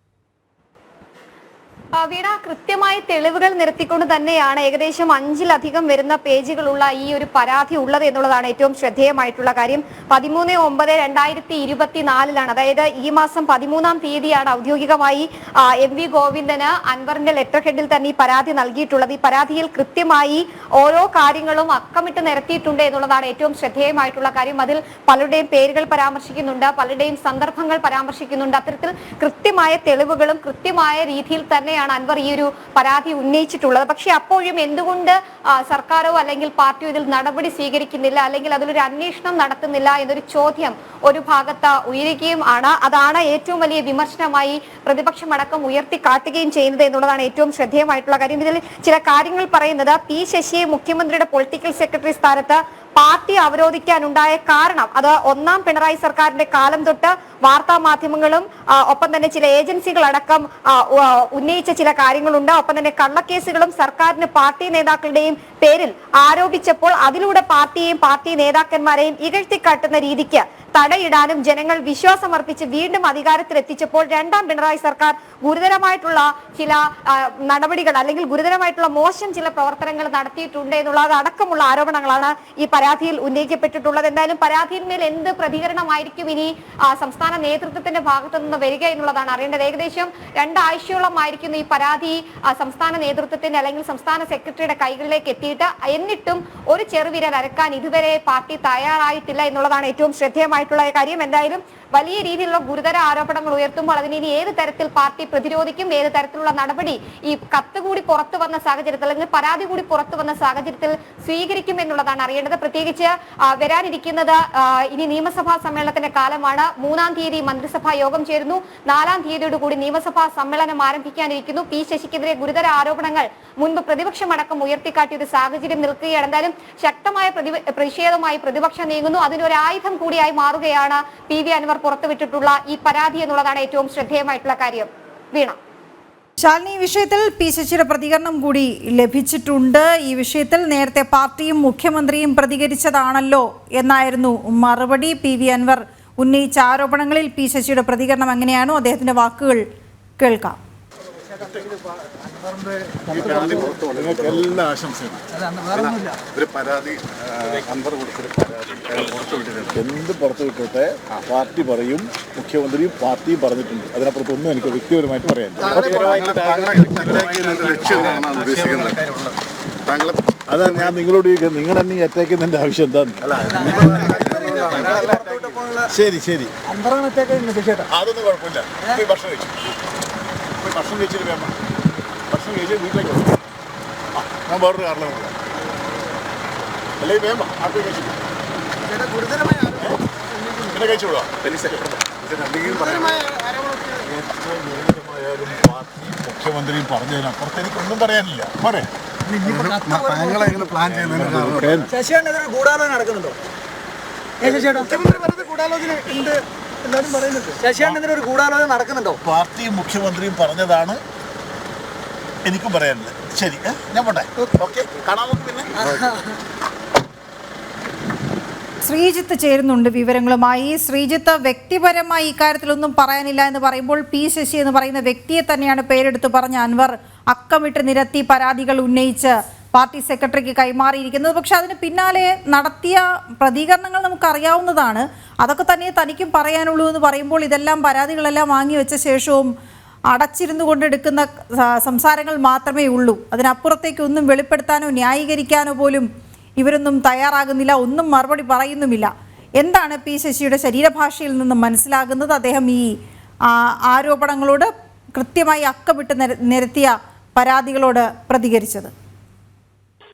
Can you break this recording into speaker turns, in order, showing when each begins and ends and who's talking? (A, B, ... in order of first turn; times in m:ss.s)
0:02.0-2:15.6 A
2:16.4-2:29.6 B
2:30.2-2:30.6 B
2:33.1-2:35.2 C
2:33.2-2:34.6 D
2:35.4-2:36.1 E
2:35.7-2:39.7 D
2:39.7-2:49.0 C
2:45.7-2:49.1 D
2:49.8-2:50.4 D
2:50.5-2:55.2 C
2:53.6-2:55.3 D
2:54.5-2:55.8 E
2:55.8-2:56.5 C
2:56.7-2:57.8 E
2:57.9-2:59.6 C
3:00.6-3:01.5 C
3:02.3-3:03.4 C
3:04.2-3:05.3 C
3:07.0-3:08.2 C
3:10.6-3:11.9 C
3:12.3-3:13.2 D
3:12.6-3:13.3 C
3:14.0-3:18.9 C
3:19.3-3:20.6 E
3:19.5-3:21.8 D
3:20.8-3:21.9 C
3:21.9-3:23.4 E
3:24.4-3:29.2 E
3:29.1-3:31.0 C
3:32.4-3:35.9 C
3:38.8-3:59.5 B
4:00.1-4:13.0 B
4:13.5-4:18.9 B